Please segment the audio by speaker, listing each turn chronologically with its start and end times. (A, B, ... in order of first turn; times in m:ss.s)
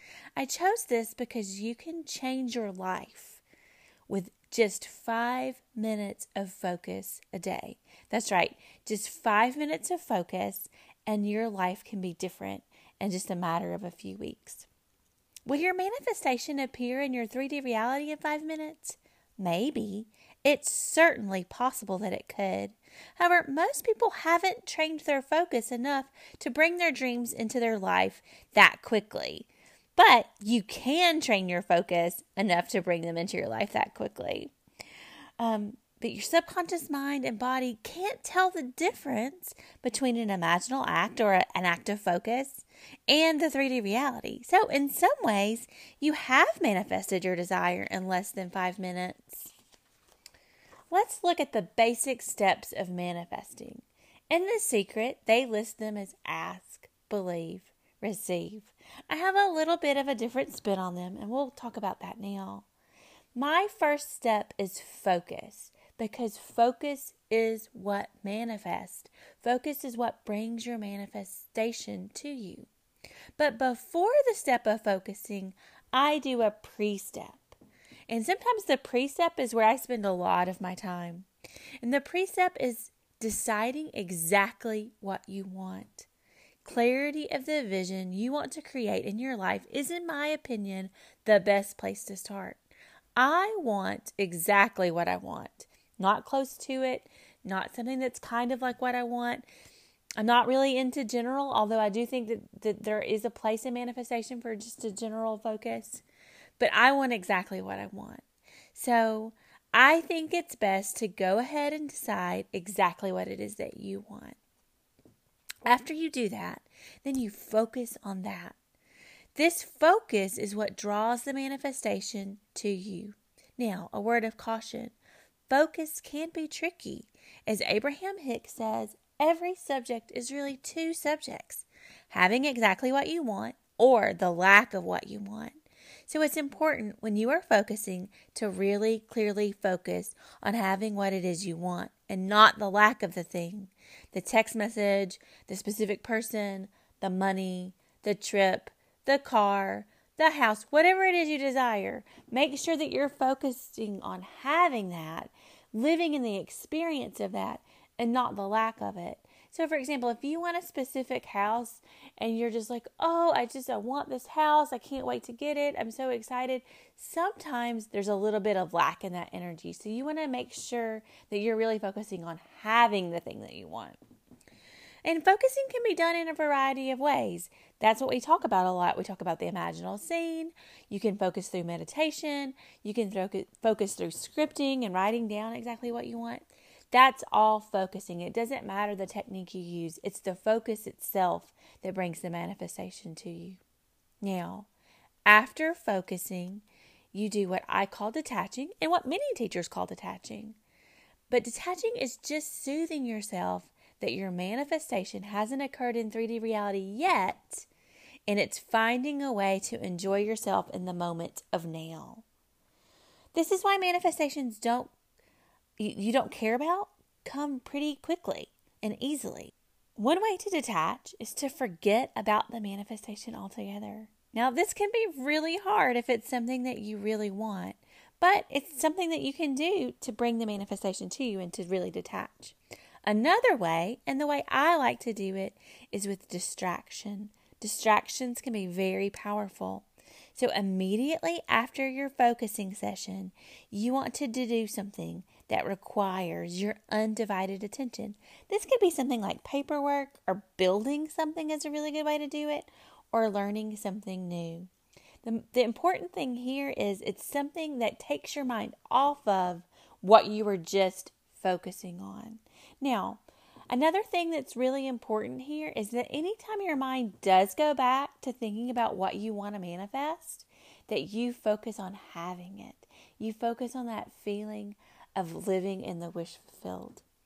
0:00.4-0:03.4 A
0:04.1-0:14.7 A
0:15.5-0:34.5 A
0:35.4-0:49.5 A
0:50.9-1:02.7 A
1:03.4-1:12.7 A
1:13.4-1:17.6 A
1:18.1-1:21.3 A
1:21.8-1:26.1 A
1:26.6-1:32.6 A
1:33.2-1:39.5 A
1:40.2-1:46.0 A
1:46.6-1:54.4 A
1:55.6-1:58.6 A
1:59.4-2:05.0 A
2:05.5-2:54.0 A
2:55.0-3:13.6 A
3:14.2-3:14.7 A
3:15.3-3:20.6 A
3:21.3-3:27.7 A
3:28.3-3:32.2 A
3:33.3-3:34.9 A
3:35.8-4:14.7 A
4:15.2-4:37.0 A